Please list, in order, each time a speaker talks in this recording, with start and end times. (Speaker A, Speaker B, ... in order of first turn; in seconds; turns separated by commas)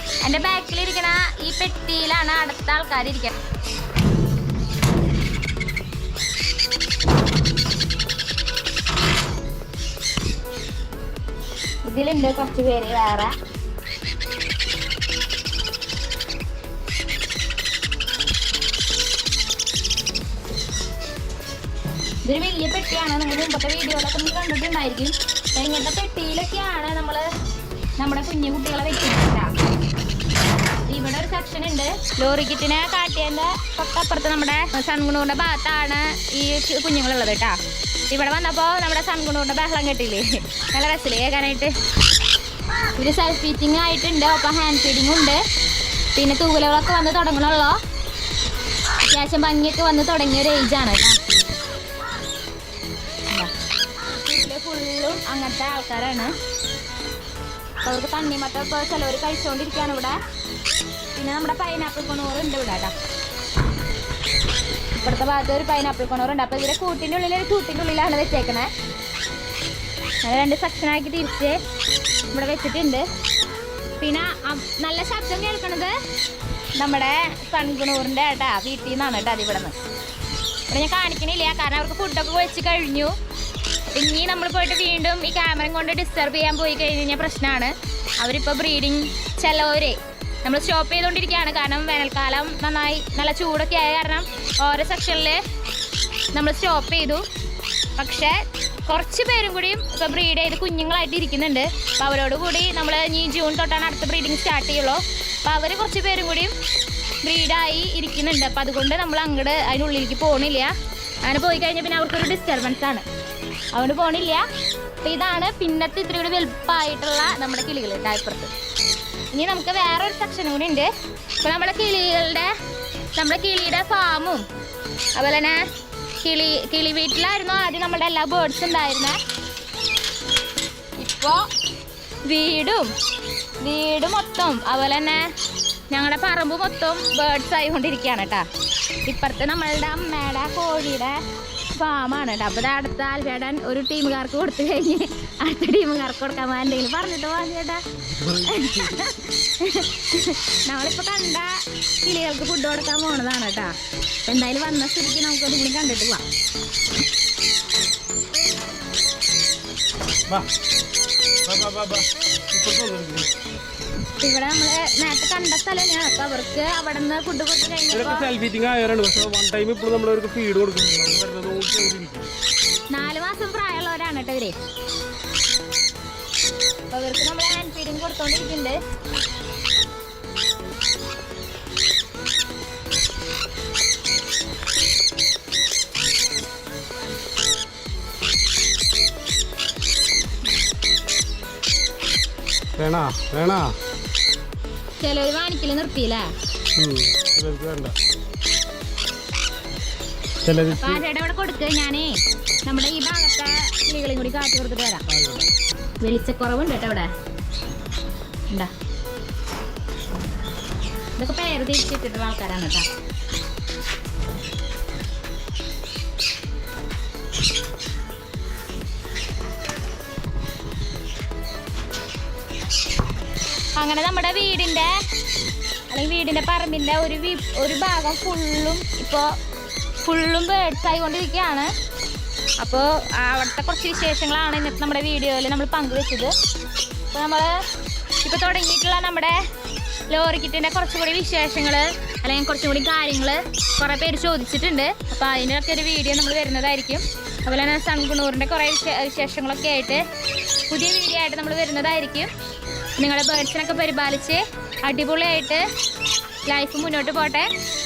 Speaker A: 0.2-3.3, Speaker A: 11.8-13.3, Speaker A: 22.2-27.2, Speaker A: 28.0-29.5, Speaker A: 30.9-37.6, Speaker A: 38.1-41.7, Speaker A: 42.9-45.4, Speaker A: 46.1-47.8, Speaker A: 49.1-51.2, Speaker A: 54.1-56.3, Speaker A: 57.8-60.2, Speaker A: 61.1-62.9, Speaker A: 64.9-68.7, Speaker A: 70.2-71.6, Speaker A: 72.3-73.0, Speaker A: 74.0-75.9, Speaker A: 76.8-79.8, Speaker A: 80.7-83.1, Speaker A: 83.9-95.4, Speaker A: 96.3-97.2, Speaker A: 98.0-106.5, Speaker A: 107.2-110.7, Speaker A: 111.2-113.0, Speaker A: 113.7-114.5, Speaker A: 115.0-118.5, Speaker A: 119.3-120.9, Speaker A: 121.4-122.5, Speaker A: 123.1-124.5, Speaker A: 125.2-125.6, Speaker A: 126.2-129.2, Speaker A: 131.0-131.4, Speaker A: 132.2-132.9, Speaker A: 133.6-135.2, Speaker A: 135.9-138.4, Speaker A: 139.1-141.2, Speaker A: 141.7-156.2, Speaker B: 148.2-148.6, Speaker B: 161.4-163.3, Speaker A: 164.2-168.3, Speaker B: 167.9-172.3, Speaker A: 172.9-174.6, Speaker A: 176.9-178.8, Speaker B: 192.8-193.7, Speaker A: 195.0-196.3, Speaker B: 196.7-197.9, Speaker B: 200.4-201.0, Speaker A: 200.7-205.0, Speaker B: 205.1-205.5, Speaker A: 206.0-207.1, Speaker A: 211.2-212.9, Speaker A: 223.8-224.9, Speaker A: 225.9-229.3, Speaker A: 230.0-231.7, Speaker A: 232.6-236.3, Speaker A: 237.1-237.6, Speaker A: 238.2-239.4, Speaker A: 240.1-250.0, Speaker A: 250.7-252.3, Speaker A: 253.0-255.6, Speaker A: 256.4-257.5